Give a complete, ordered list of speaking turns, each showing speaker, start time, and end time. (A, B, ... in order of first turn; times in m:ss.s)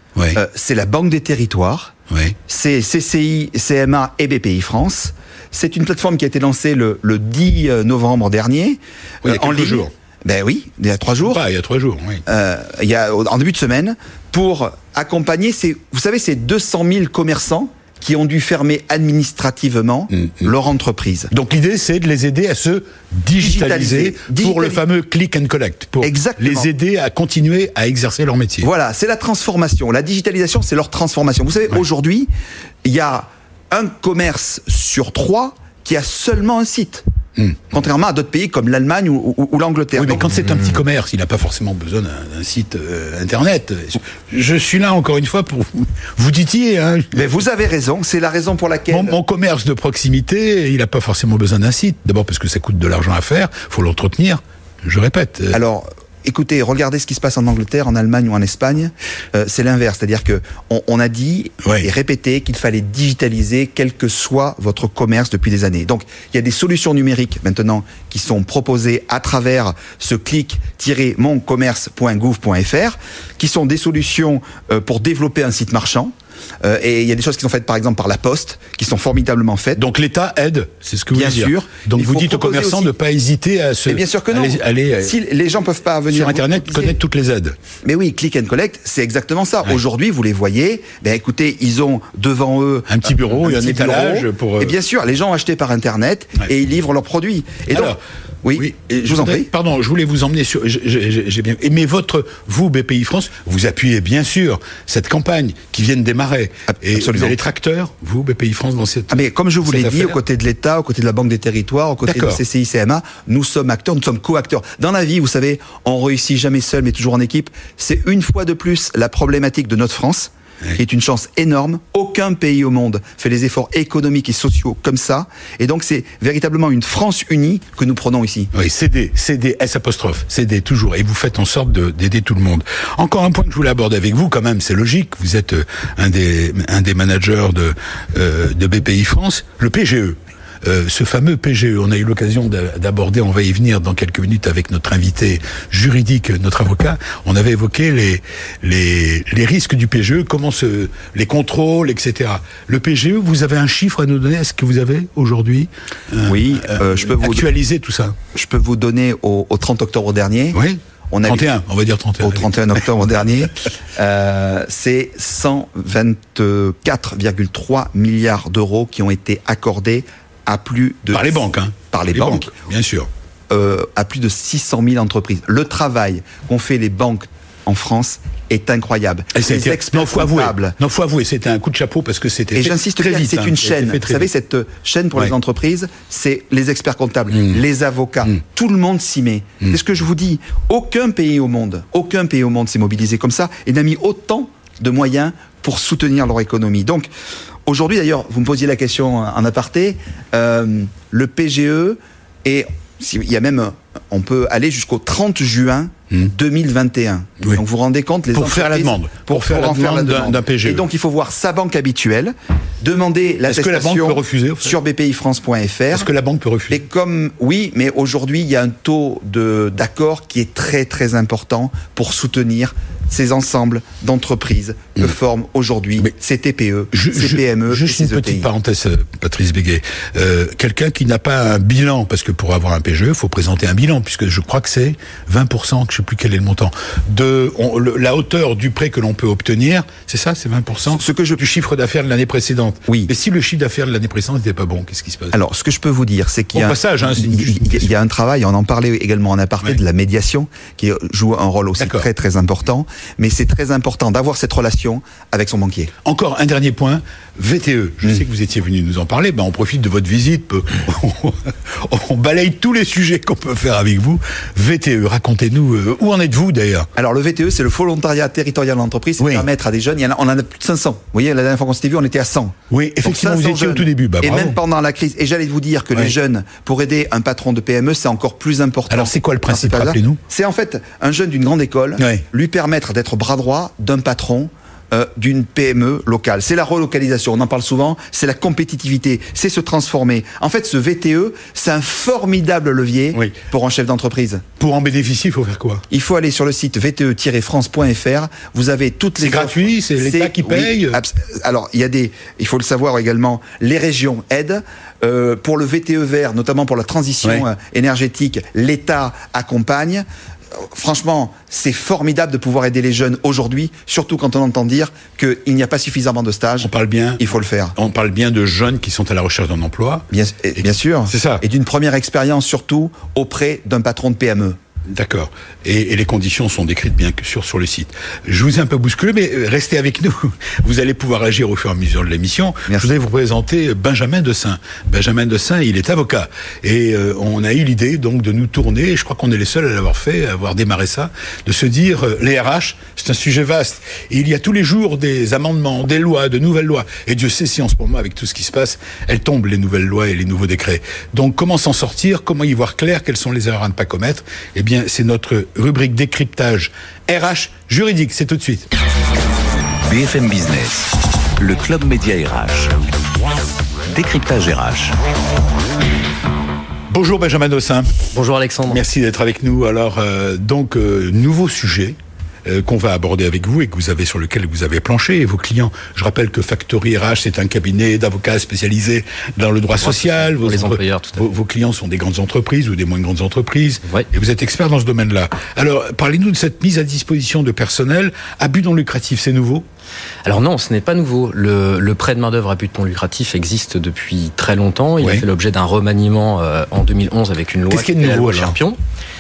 0:00.3-0:01.9 A
0:02.1-0:02.4 B
0:02.5-0:11.4 A
0:09.2-0:09.9 B
0:11.2-0:12.2 B
0:12.3-0:21.3 A
0:20.2-0:20.4 B
0:21.3-0:28.7 B
0:23.4-0:24.8 A
0:26.0-0:26.7 A
0:28.6-0:32.3 A
0:32.8-0:37.0 A
0:37.7-0:40.4 A
0:40.0-0:47.2 B
0:47.1-0:49.2 A
0:48.9-0:55.6 B
0:55.5-1:19.8 A
1:19.8-1:25.1 B
1:21.1-1:22.9 A
1:23.9-1:26.9 A
1:26.1-1:27.6 B
1:27.8-1:39.5 A
1:32.9-1:34.8 B
1:37.7-1:38.0 B
1:38.6-1:50.2 B
1:46.7-1:47.4 A
1:49.1-2:08.5 A
1:52.1-1:52.4 B
2:08.5-2:38.2 B
2:36.2-2:37.5 A
2:38.4-2:40.6 A
2:40.5-2:42.5 B
2:41.1-2:41.5 A
2:42.2-2:52.5 A
2:51.1-2:53.1 B
2:53.5-3:00.8 A
2:59.4-3:04.3 B
3:02.5-3:17.1 A
3:17.6-3:36.1 A
3:28.3-3:30.8 B
3:33.5-3:34.8 B
3:35.9-3:36.9 B
3:36.7-3:48.5 A
3:46.9-4:05.4 B
4:00.9-4:01.5 A
4:05.3-4:15.9 A
4:06.5-4:07.9 B
4:11.8-4:12.1 B
4:16.0-4:26.9 B
4:27.0-4:54.4 A
4:29.2-4:29.5 B
4:32.7-4:34.6 B
4:38.9-4:40.2 B
4:42.0-4:42.2 B
4:54.6-4:55.8 B
4:55.9-5:10.0 A
4:59.2-5:01.0 B
5:10.6-5:17.8 A
5:16.6-5:17.2 B
5:17.8-5:21.4 B
5:20.1-5:24.6 A
5:24.9-5:58.7 B
5:59.8-6:02.8 C
6:03.9-6:04.9 C
6:06.9-6:08.1 B
6:08.1-6:08.8 D
6:08.7-6:29.6 B
6:19.8-6:21.3 D
6:30.2-6:38.8 D
6:37.7-6:38.5 B